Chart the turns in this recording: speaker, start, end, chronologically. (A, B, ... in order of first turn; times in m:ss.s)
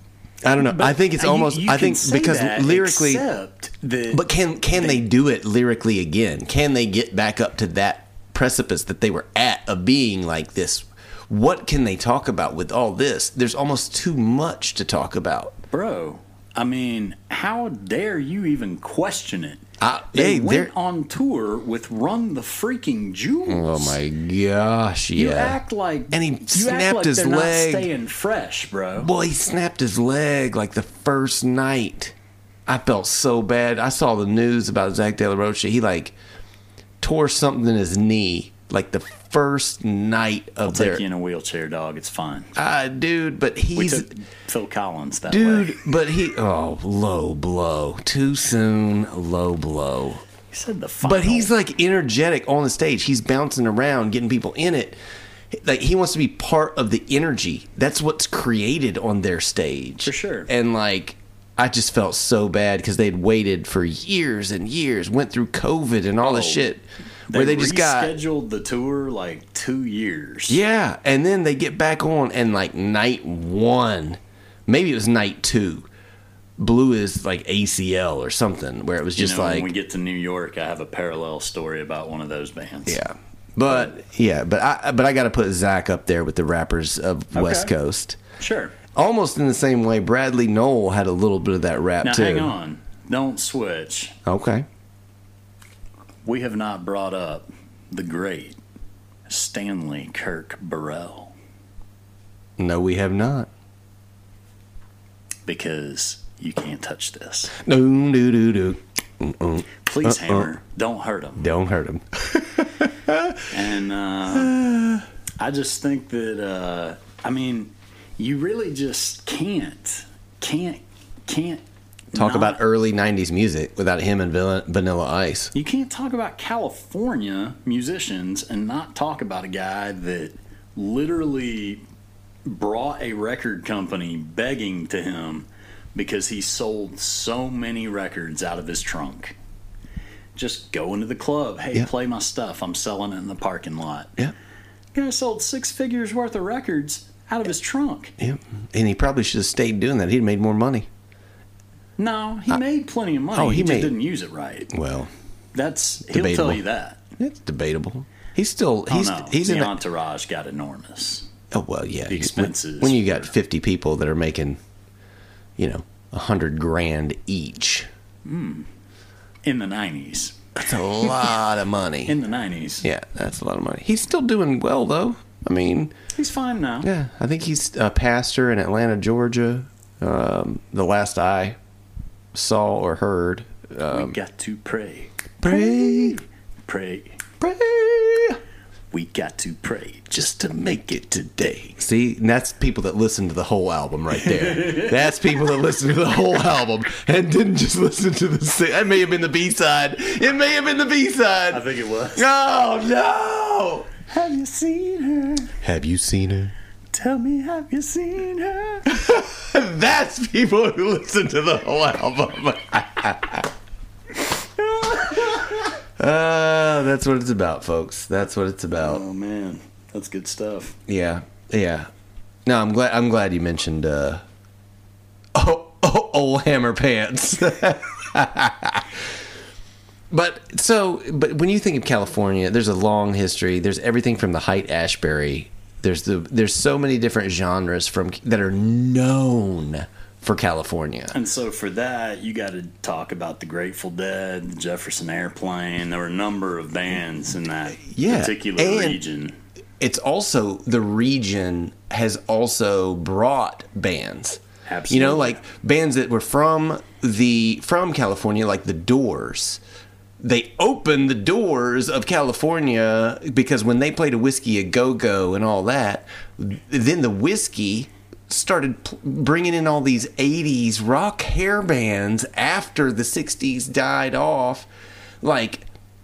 0:00.4-0:03.2 A
0:00.6-0:05.0 B
0:04.1-0:15.6 A
0:15.7-0:24.0 B
0:19.8-0:20.7 A
0:23.5-0:25.6 A
0:25.2-0:29.1 B
0:26.1-0:27.9 A
0:29.0-0:32.2 A
0:32.7-0:36.2 A
0:37.0-0:41.0 A
0:40.7-0:42.5 B
0:42.6-0:44.1 A
0:43.8-0:45.8 B
0:45.3-0:50.2 A
0:50.5-0:51.5 B
0:51.0-0:55.0 A
0:55.5-1:08.2 A
1:00.0-1:00.5 B
1:06.2-1:06.7 B
1:07.3-1:10.6 B
1:10.5-1:15.9 A
1:16.6-1:19.7 A
1:19.2-1:23.0 B
1:22.9-1:28.2 A
1:27.3-1:27.7 B
1:28.4-1:28.8 B
1:28.9-1:32.6 A
1:32.0-1:34.2 B
1:34.2-1:34.6 A
1:36.2-1:38.6 B
1:39.3-1:41.4 B
1:42.6-1:43.5 A
1:45.5-1:47.6 B
1:47.6-1:50.5 A
1:49.8-1:51.5 B
1:51.4-1:53.5 A
1:53.5-1:54.6 B
1:54.3-1:55.0 A
1:55.4-2:02.6 B
2:02.1-2:05.5 A
2:05.5-2:11.8 B
2:12.5-2:19.4 B
2:20.4-2:24.2 B
2:25.0-2:28.1 B
2:28.2-2:30.9 A
2:32.0-2:34.7 B
2:33.3-2:34.0 A
2:34.7-2:35.1 A
2:35.5-2:37.0 B
2:36.1-2:36.6 A
2:37.2-2:39.8 A
2:38.9-2:41.3 B
2:41.5-2:44.6 A
2:42.1-2:43.3 B
2:45.6-2:47.9 A
2:48.2-2:48.7 B
2:49.4-2:50.5 B
2:50.6-2:52.2 A
2:52.1-2:52.9 B
2:52.8-2:55.9 A
2:56.1-2:56.9 B
2:56.8-3:01.6 A
3:02.3-3:04.2 A
3:03.9-3:07.2 B
3:05.4-3:06.2 A
3:07.4-3:08.4 A
3:08.9-3:11.3 B
3:10.1-3:23.9 A
3:14.4-3:14.9 B
3:21.5-3:22.2 B
3:24.1-3:25.5 B
3:25.6-3:26.5 A
3:26.9-3:28.9 B
3:28.9-3:33.5 A
3:34.6-3:35.6 B
3:36.0-3:39.0 A
3:38.7-3:40.8 B
3:40.9-3:41.9 A
3:42.5-3:44.2 A
3:45.4-3:49.1 A
3:50.1-4:01.2 A
4:01.1-4:09.4 B
4:07.8-4:09.0 A
4:09.8-4:19.6 A
4:14.6-4:15.4 B
4:20.2-4:34.7 A
4:35.2-4:35.7 A